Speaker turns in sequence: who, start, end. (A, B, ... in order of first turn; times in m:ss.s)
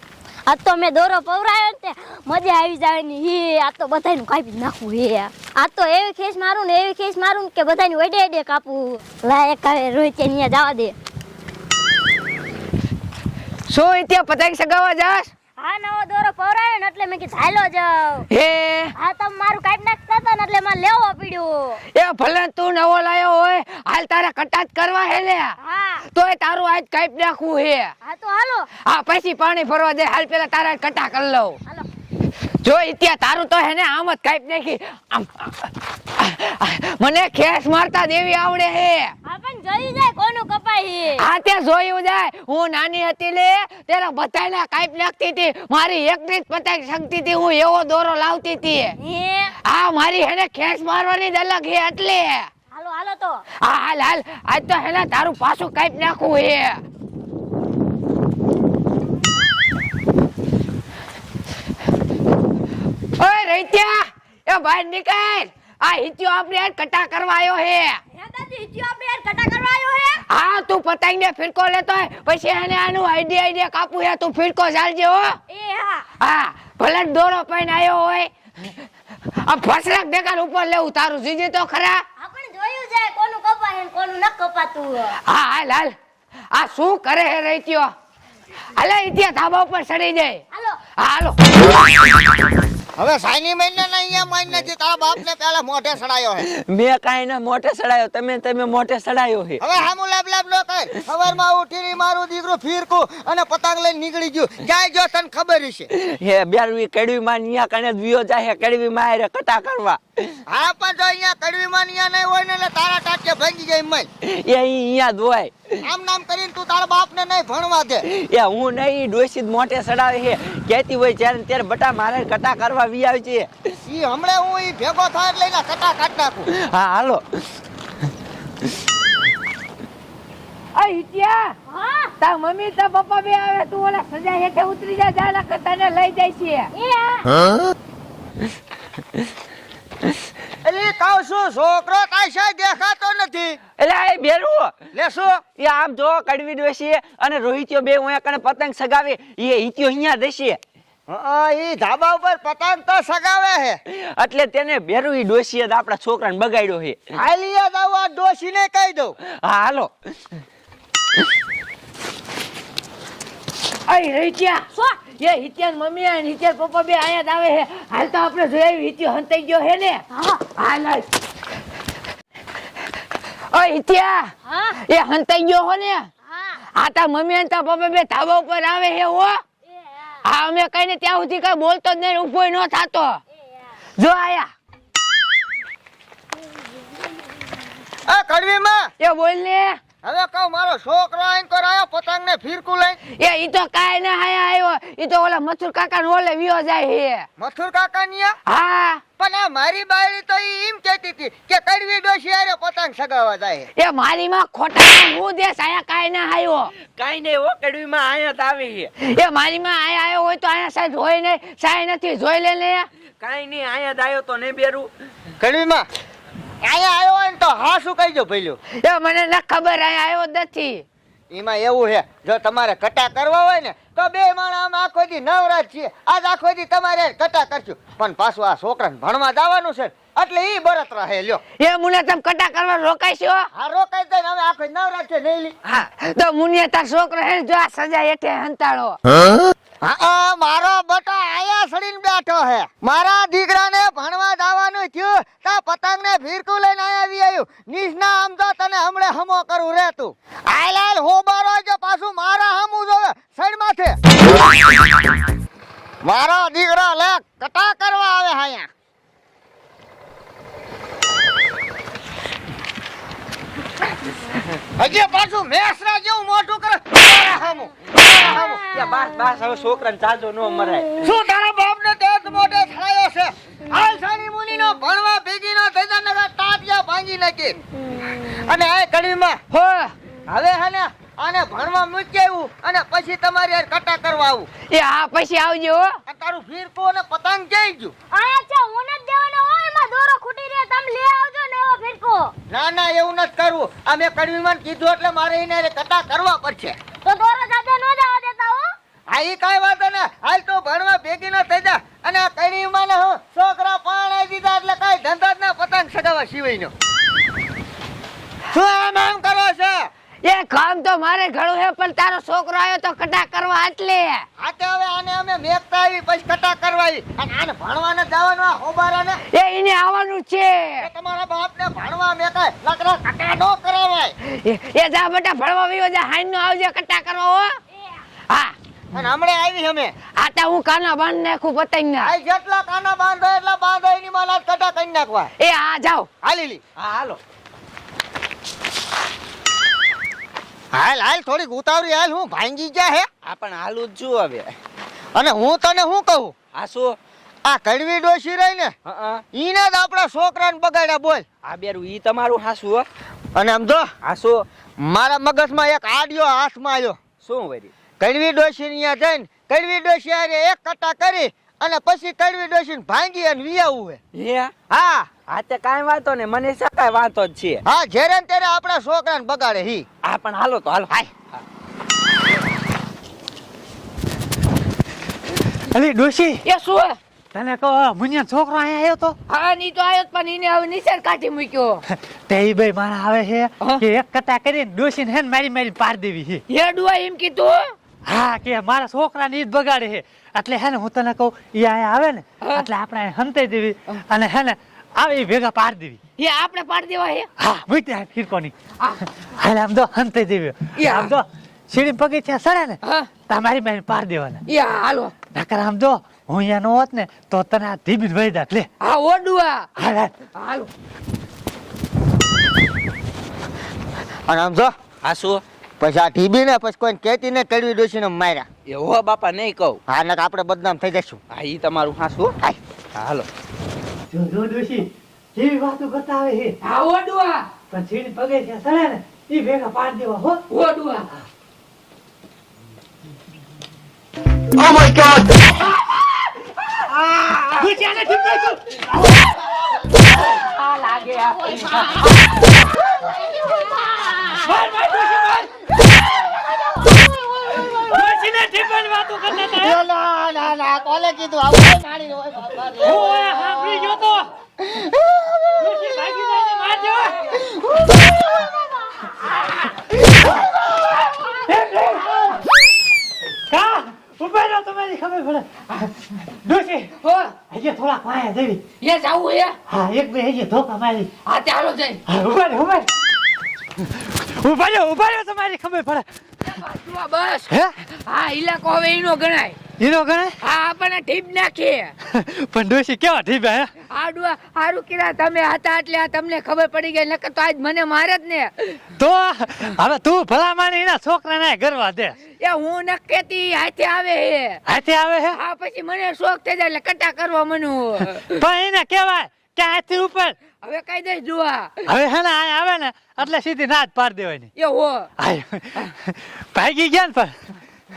0:00.4-0:11.0 A
0:13.7-0:15.3 B
0:15.6-0:18.2 A
0:18.3-0:18.9 B
0:19.0-0:21.8 A
0:21.9-0:27.9 B
0:25.6-0:26.0 A
0:28.0-0:28.7 A
0:28.8-0:31.6 B
0:32.6-0:39.1 B
0:39.2-0:41.2 A
0:41.2-0:49.0 B
0:49.0-0:49.5 A
0:49.6-0:52.5 B
0:52.7-0:53.4 A
0:53.6-0:56.8 B
1:03.2-1:08.0 B
1:08.1-1:10.2 A
1:10.3-1:15.4 B
1:15.5-1:16.0 A
1:16.2-1:18.7 B
1:19.3-1:22.0 B
1:22.2-1:25.2 A
1:25.2-1:25.9 B
1:26.5-1:27.9 B
1:28.7-1:30.4 B
1:30.5-1:30.8 A
1:31.0-1:31.5 B
1:33.0-1:36.5 C
1:36.4-1:39.8 D
1:39.6-1:45.9 C
1:45.9-1:50.3 D
1:50.5-1:54.1 C
1:54.2-1:55.8 D
1:55.8-1:58.0 C
1:58.1-2:03.5 D
2:03.8-2:06.5 C
2:06.5-2:07.2 D
2:10.7-2:11.5 B
2:11.7-2:12.1 A
2:12.2-2:16.7 B
2:16.7-2:17.4 A
2:20.6-2:23.6 C
2:23.8-2:24.7 D
2:24.9-2:25.4 C
2:25.6-2:30.6 D
2:31.1-2:33.8 C
2:33.9-2:37.1 D
2:37.1-2:39.2 C
2:39.4-2:39.9 D
2:43.9-2:51.1 B
2:50.1-2:50.4 A
2:53.5-2:56.1 B
2:54.4-2:54.8 A
2:56.2-2:56.6 A
2:56.7-2:59.4 B
2:59.7-3:00.2 A
3:00.2-3:03.2 B
3:03.4-3:03.7 A
3:04.0-3:04.5 B
3:08.0-3:08.9 C
3:09.0-3:09.8 B
3:10.0-3:13.0 C
3:13.1-3:17.3 B
3:17.4-3:18.4 C
3:18.5-3:19.0 B
3:19.2-3:23.7 C
3:23.8-3:26.7 B
3:26.9-3:28.9 D
3:29.0-3:32.9 B
3:33.2-3:34.9 D
3:35.4-3:35.8 C
3:36.6-3:38.6 C
3:38.8-3:40.8 B
3:41.3-3:51.4 C
3:51.6-3:53.4 B
3:53.5-3:55.5 C
3:55.6-3:59.0 B
3:59.8-4:14.0 C
4:16.0-4:18.7 C
4:24.7-4:28.7 C
4:28.6-4:31.0 D
4:31.0-4:39.4 C
4:39.5-4:39.9 B
4:40.3-4:44.5 C
4:44.7-4:45.9 B
4:46.1-4:47.9 C
4:48.1-4:52.3 A
4:52.5-4:56.8 C
4:57.0-4:58.7 A
4:59.1-5:06.7 C
5:08.5-5:09.9 C
5:10.2-5:14.2 B
5:14.4-5:19.2 C
5:19.3-5:20.9 B
5:20.8-5:24.1 C
5:24.2-5:27.6 B
5:28.3-5:28.5 B
5:28.9-5:29.9 C
5:30.2-5:32.1 B
5:32.0-5:35.3 C
5:35.4-5:36.1 B
5:36.2-5:36.6 C
5:36.8-5:37.2 D
5:40.7-5:43.1 C
5:43.2-5:44.5 D
5:45.1-5:46.3 C
5:46.5-5:47.0 D
5:47.4-5:48.7 C
5:48.8-5:49.2 D
5:49.3-5:51.2 C
5:51.4-5:52.9 D
5:53.3-5:53.9 C
5:54.0-5:54.4 D
5:54.8-5:57.0 C
5:57.2-5:57.7 D
5:58.0-6:04.0 C
6:04.1-6:04.5 D
6:04.7-6:05.1 C
6:05.3-6:07.6 D
6:07.6-6:09.8 C
6:10.0-6:11.4 D
6:15.7-6:16.4 E
6:16.4-6:17.0 B
6:17.3-6:19.1 E
6:19.3-6:21.8 B
6:21.9-6:26.4 E
6:26.5-6:27.7 B
6:28.0-6:36.0 E
6:32.4-6:32.7 B
6:36.2-6:37.3 B
6:37.4-6:38.5 E
6:39.2-6:44.4 E
6:40.8-6:41.1 B
6:42.8-6:43.1 B
6:44.4-6:45.1 B
6:45.3-6:48.7 E
6:48.8-6:49.7 B
6:49.8-6:50.1 E
6:50.3-6:50.7 B
6:54.2-6:54.7 C
6:55.0-6:55.4 D
6:55.8-6:58.4 C
6:58.7-6:59.8 D
6:59.9-7:01.2 C
7:01.3-7:02.3 D
7:02.9-7:03.3 D
7:04.1-7:06.5 E
7:06.6-7:07.5 B
7:07.7-7:10.4 E
7:10.5-7:11.1 B
7:17.6-7:18.8 E
7:17.6-7:18.2 B
7:19.0-7:19.3 B
7:20.4-7:22.6 B
7:24.0-7:25.4 B
7:24.5-7:25.4 E
7:27.6-7:29.8 E
7:29.4-7:33.0 C
7:32.8-7:34.3 E
7:34.6-7:35.8 C
7:35.6-7:37.1 E
7:37.5-7:38.5 C
7:40.1-7:40.4 E
7:41.2-7:42.4 E
7:43.5-7:46.9 E
7:47.0-7:47.3 B
7:47.5-7:48.6 E
7:48.8-7:49.6 B
7:49.7-7:51.1 E
7:51.2-7:52.0 B
7:52.1-7:52.9 E
7:53.8-7:56.0 E
7:56.4-7:59.6 B
7:59.8-8:00.3 E
8:00.4-8:01.9 B
8:02.0-8:03.7 E
8:03.9-8:08.8 B
8:09.0-8:12.2 E
8:12.4-8:14.6 B
8:14.7-8:15.4 E
8:15.3-8:18.4 B
8:18.3-8:20.3 E
8:20.6-8:21.8 B
8:21.9-8:24.5 E
8:24.6-8:25.1 B
8:25.2-8:27.3 E